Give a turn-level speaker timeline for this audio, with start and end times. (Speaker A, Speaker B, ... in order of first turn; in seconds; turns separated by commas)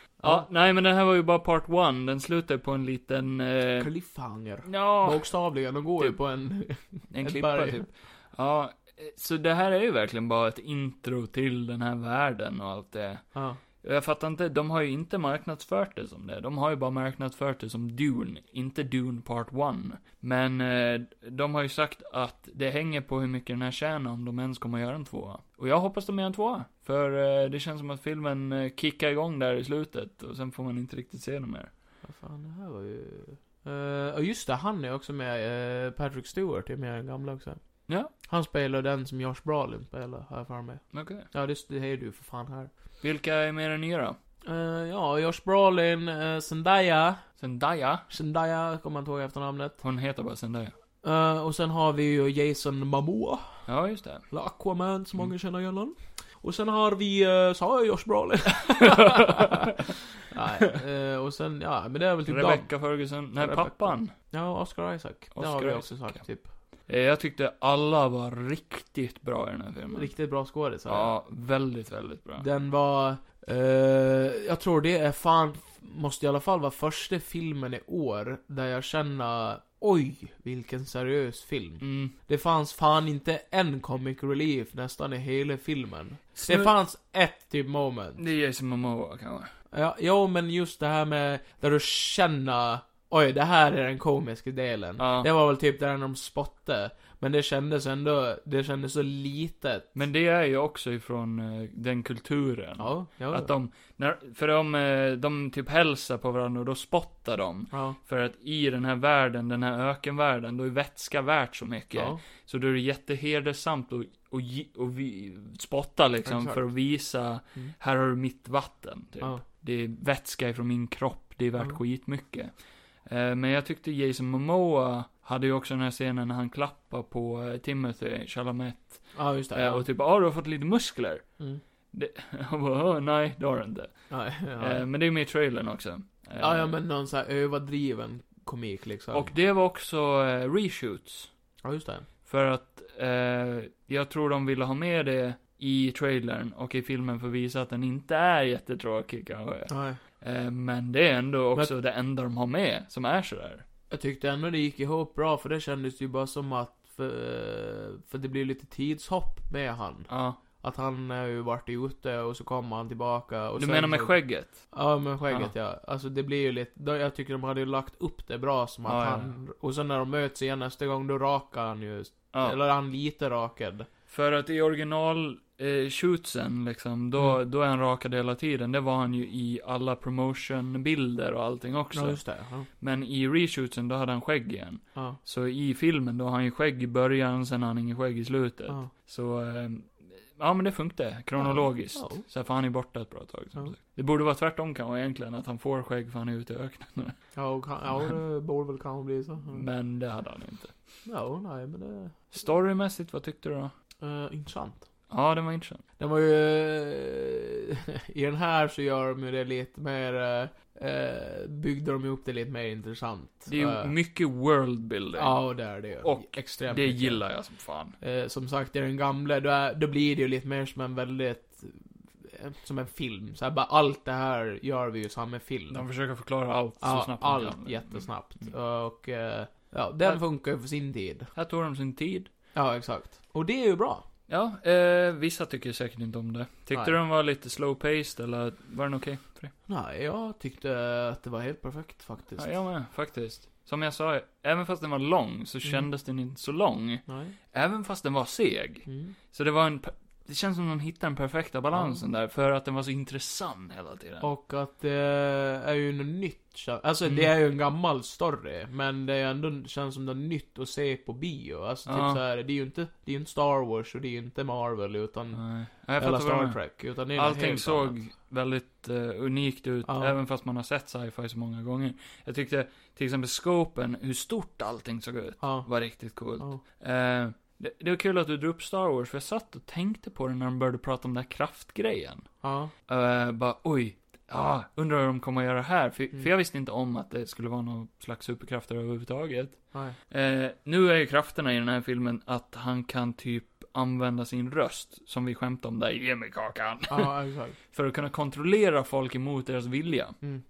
Speaker A: 0.2-0.5, Speaker B: 0.2-3.9, Speaker A: 3.8-7.8, Speaker B: 4.6-6.2, Speaker B: 7.1-31.7, Speaker A: 13.3-13.6, Speaker A: 32.0-42.7, Speaker B: 37.9-38.1, Speaker B: 40.9-41.3, Speaker B: 43.0-44.2, Speaker A: 44.4-47.3, Speaker B: 47.4-48.1, Speaker A: 48.1-49.8, Speaker B: 49.8-50.7, Speaker A: 51.0-53.7, Speaker B: 53.6-54.3, Speaker A: 54.3-66.5, Speaker B: 58.8-59.5, Speaker B: 62.3-64.1, Speaker B: 65.3-66.2, Speaker B: 66.9-70.1, Speaker A: 69.9-71.1, Speaker B: 70.9-72.5, Speaker A: 72.4-88.2, Speaker B: 81.8-82.1, Speaker B: 86.4-86.7, Speaker B: 88.2-89.5, Speaker A: 89.7-99.9, Speaker B: 95.0-95.3, Speaker B: 99.9-131.4, Speaker A: 102.8-103.5, Speaker A: 107.7-108.0, Speaker A: 111.9-112.2, Speaker A: 116.2-116.7, Speaker A: 129.1-129.9, Speaker B: 131.9-136.7, Speaker A: 134.1-134.8, Speaker A: 136.4-139.3, Speaker B: 139.1-141.3, Speaker A: 141.6-142.1, Speaker B: 142.2-153.6, Speaker A: 149.7-150.0, Speaker A: 153.9-173.9, Speaker B: 160.1-160.4, Speaker B: 163.6-164.7, Speaker B: 165.3-165.5, Speaker B: 168.8-169.3, Speaker B: 174.1-197.2, Speaker A: 181.9-182.7, Speaker A: 191.4-192.2, Speaker A: 197.3-199.7, Speaker B: 199.5-200.7, Speaker A: 201.0-202.2, Speaker B: 202.3-203.7, Speaker A: 204.0-204.8, Speaker B: 205.1-205.8, Speaker A: 206.0-213.9, Speaker B: 213.5-218.0, Speaker A: 215.1-217.4, Speaker A: 218.0-225.8, Speaker B: 225.7-228.1, Speaker A: 226.8-231.3, Speaker B: 231.3-232.3, Speaker A: 232.5-234.0, Speaker B: 234.3-239.5, Speaker A: 236.7-237.0, Speaker A: 239.7-242.7, Speaker B: 242.4-254.3, Speaker A: 247.1-247.3, Speaker A: 248.8-249.1, Speaker A: 251.7-252.0, Speaker A: 254.2-267.9, Speaker B: 257.0-257.3, Speaker B: 261.9-262.2, Speaker B: 265.3-282.3, Speaker A: 269.9-270.1, Speaker A: 275.4-276.6, Speaker A: 282.4-282.7, Speaker B: 282.9-297.1, Speaker A: 296.9-297.6, Speaker B: 297.7-300.2